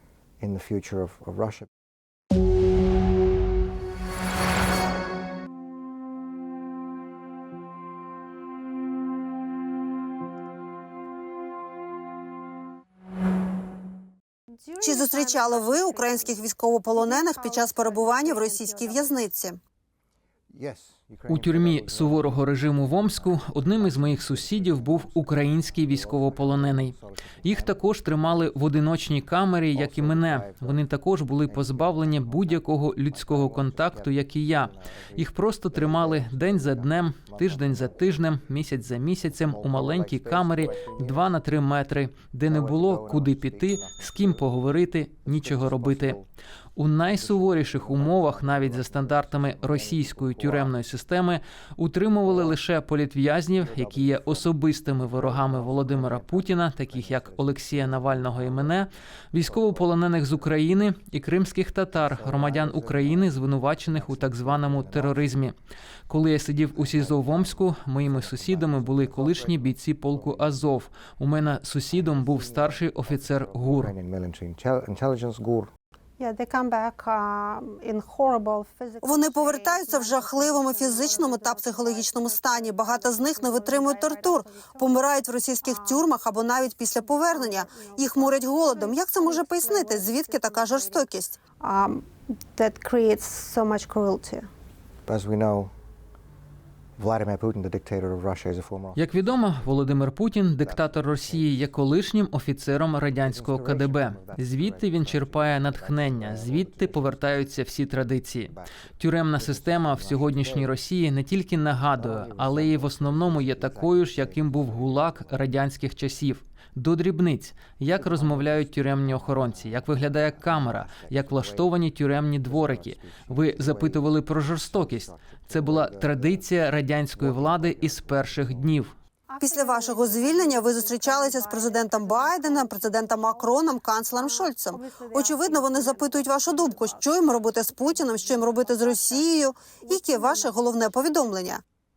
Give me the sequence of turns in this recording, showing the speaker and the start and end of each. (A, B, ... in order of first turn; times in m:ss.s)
0:00.4-0:01.7 A
0:14.6-0:19.2 B
0:14.8-0:19.6 C
0:20.5-0:28.7 A
0:21.3-0:46.2 D
0:29.7-0:30.8 A
0:31.4-0:38.4 A
0:39.3-0:41.4 A
0:42.5-0:44.5 A
0:45.2-0:46.3 A
0:46.8-1:05.5 D
0:47.1-0:50.7 A
0:52.2-0:52.6 A
0:53.6-0:54.5 A
0:55.1-0:58.8 A
0:59.4-1:00.6 A
1:01.9-1:05.4 A
1:06.1-1:13.9 D
1:06.7-1:10.7 A
1:11.9-1:15.7 A
1:16.2-1:26.2 B
1:19.0-1:31.4 C
1:26.8-1:31.1 B
1:31.6-1:34.5 B
1:35.0-1:35.7 A
1:37.0-1:39.9 A
1:39.0-2:08.9 D
1:40.6-1:41.6 A
1:43.2-1:47.2 A
1:48.5-1:50.7 A
1:52.0-1:55.5 A
1:57.9-2:01.8 A
2:02.4-2:06.5 A
2:07.1-2:08.8 A
2:09.3-2:20.9 B
2:09.4-2:21.6 C